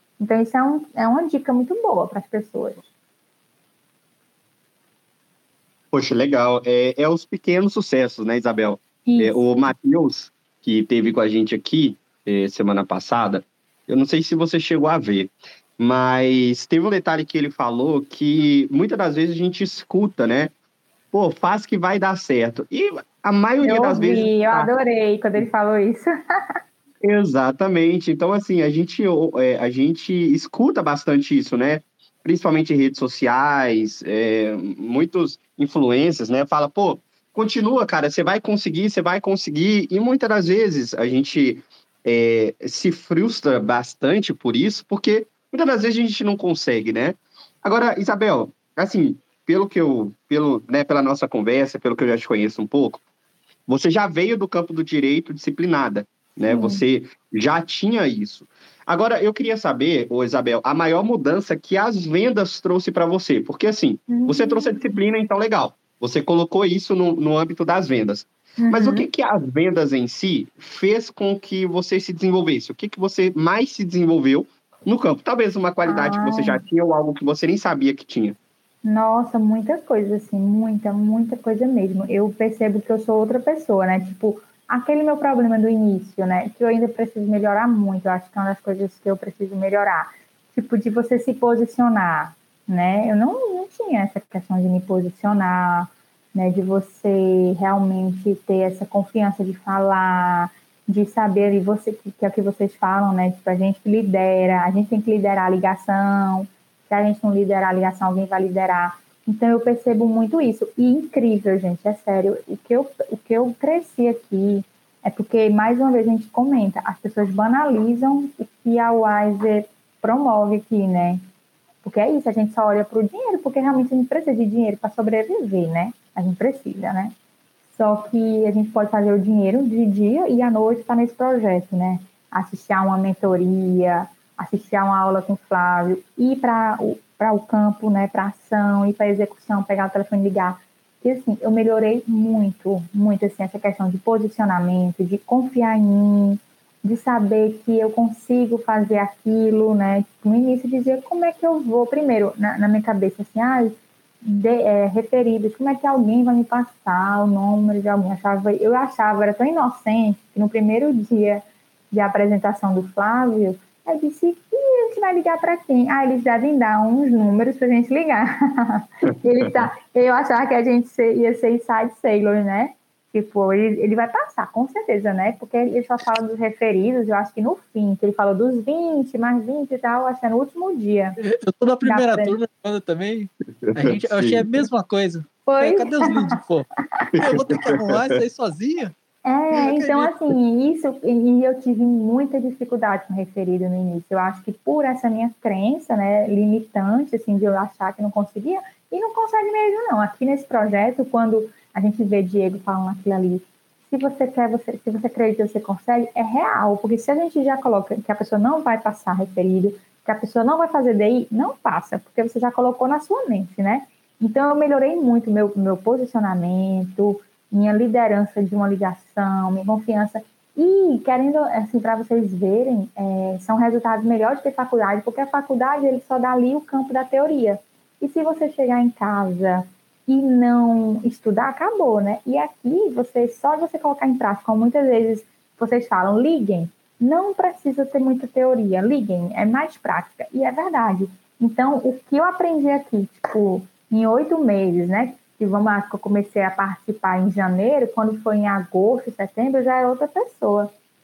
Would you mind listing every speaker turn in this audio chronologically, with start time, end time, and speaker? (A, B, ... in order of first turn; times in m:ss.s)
0:00.2-0:02.8 A
0:05.9-0:20.5 B
0:09.0-0:09.7 A
0:21.1-0:24.7 B
0:23.6-0:26.1 A
0:27.0-0:53.0 B
0:53.7-1:18.4 B
0:56.5-0:56.8 A
1:04.1-1:05.0 A
1:08.6-1:09.0 A
1:15.8-1:16.6 A
1:18.8-2:01.2 A
2:01.8-2:07.1 A
2:07.7-3:01.2 A
3:01.2-3:08.9 C
3:01.8-3:02.4 A
3:03.6-3:04.6 B
3:05.4-3:06.4 A
3:07.1-3:08.2 B
3:09.2-4:10.7 A
3:09.5-3:10.1 C